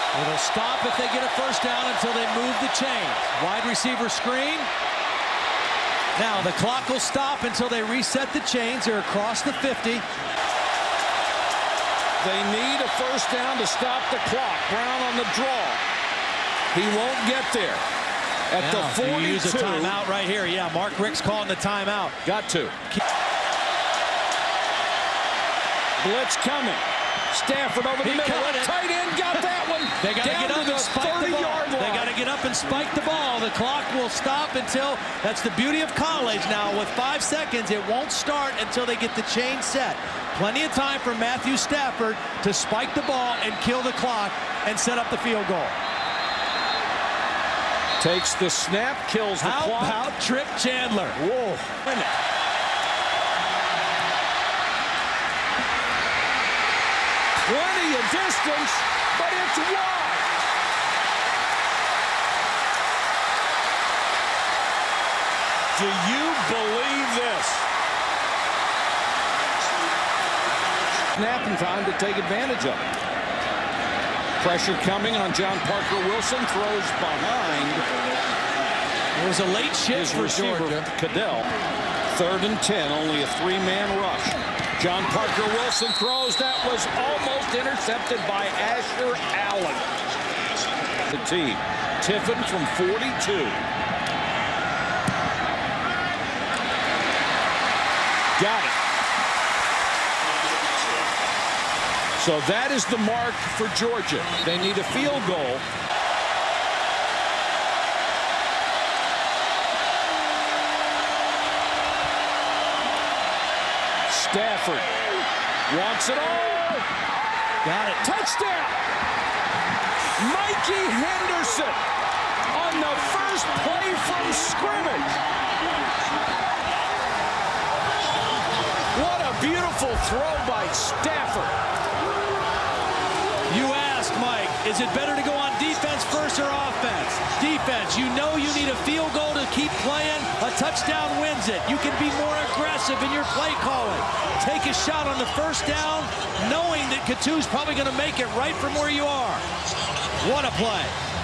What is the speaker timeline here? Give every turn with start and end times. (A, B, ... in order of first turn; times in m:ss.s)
0:00.1-0:04.7 A
0:06.2-0:10.0 A
0:12.2-0:15.8 B
0:16.7-0:17.8 B
0:18.5-0:20.0 B
0:18.6-0:22.2 A
0:22.2-0:22.8 B
0:26.0-0:32.1 B
0:28.0-0:28.7 A
0:30.0-0:45.8 A
0:48.0-0:50.1 B
0:49.4-0:51.2 A
0:51.1-0:52.1 B
0:57.4-1:00.3 B
1:05.7-1:07.7 B
1:11.1-1:12.8 B
1:14.4-1:17.8 B
1:19.1-1:20.8 A
1:19.9-1:21.5 B
1:22.1-1:29.9 B
1:31.1-1:33.6 B
1:38.4-1:38.7 B
1:42.2-1:45.6 B
1:54.1-1:55.0 B
1:55.7-1:56.8 B
1:57.6-1:58.0 A
1:58.0-1:58.8 B
2:00.2-2:01.8 B
2:02.5-2:05.2 B
2:08.9-2:11.5 B
2:13.5-2:29.4 A
2:30.2-2:30.9 A